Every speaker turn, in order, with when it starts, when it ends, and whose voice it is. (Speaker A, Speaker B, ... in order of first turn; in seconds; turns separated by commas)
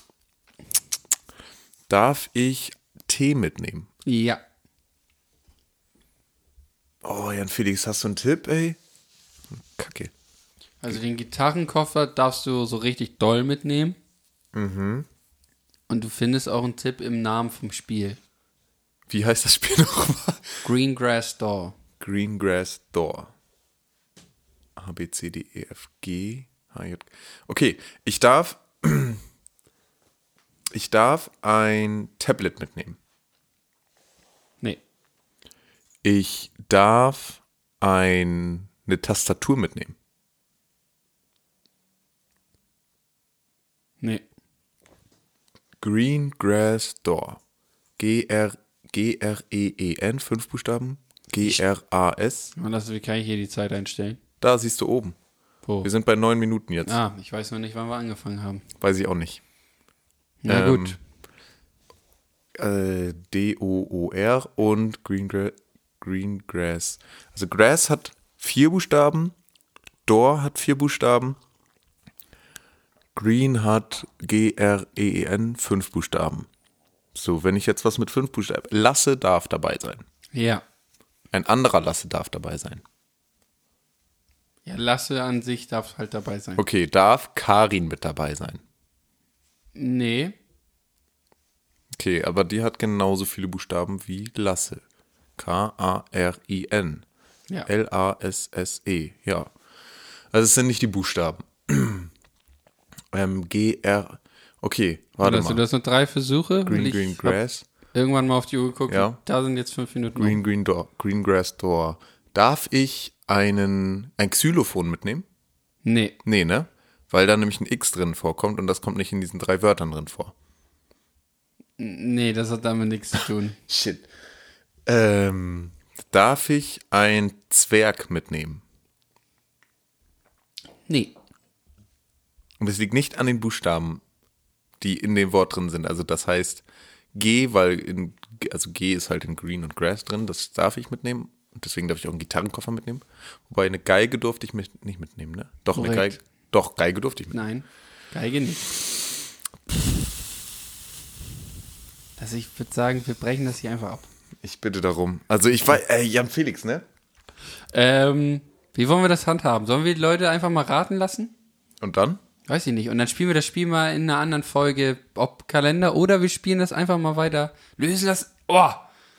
Speaker A: 1.9-3.9, Speaker B: 4.0-4.4, Speaker A: 7.0-8.8, Speaker A: 9.5-10.1, Speaker B: 10.8-14.0, Speaker A: 14.5-15.1, Speaker B: 15.9-18.2, Speaker A: 19.1-20.6, Speaker B: 20.6-21.7, Speaker A: 22.0-23.3, Speaker A: 24.8-29.2, Speaker A: 30.7-33.0, Speaker A: 36.0-39.9, Speaker A: 45.8-47.4, Speaker A: 48.0-52.5, Speaker B: 52.5-54.2, Speaker A: 54.4-55.1, Speaker B: 55.6-55.9, Speaker A: 55.8-57.0, Speaker B: 56.8-58.6, Speaker A: 58.8-59.4, Speaker B: 60.4-61.0, Speaker A: 60.5-61.0, Speaker A: 62.6-69.3, Speaker A: 70.0-71.4, Speaker A: 73.1-76.5, Speaker A: 77.1-80.0, Speaker B: 80.3-80.6, Speaker A: 81.3-82.8, Speaker B: 84.6-86.6, Speaker A: 86.6-88.6, Speaker B: 89.7-90.4, Speaker A: 92.0-94.8, Speaker A: 95.4-97.0, Speaker A: 97.7-99.5, Speaker A: 100.3-102.1, Speaker A: 103.1-105.6, Speaker B: 105.2-107.4, Speaker A: 106.7-107.7, Speaker B: 107.9-110.4, Speaker A: 108.9-109.2, Speaker A: 110.2-115.2, Speaker B: 115.8-116.2, Speaker A: 116.2-120.3, Speaker B: 121.8-123.6, Speaker A: 123.7-124.0, Speaker A: 124.8-128.6, Speaker B: 130.9-131.2, Speaker A: 132.6-134.0, Speaker A: 134.8-147.4, Speaker B: 145.7-146.2, Speaker B: 147.3-148.7, Speaker B: 152.2-154.1, Speaker A: 154.4-156.8, Speaker B: 157.7-161.3, Speaker A: 161.8-162.2, Speaker B: 162.5-168.8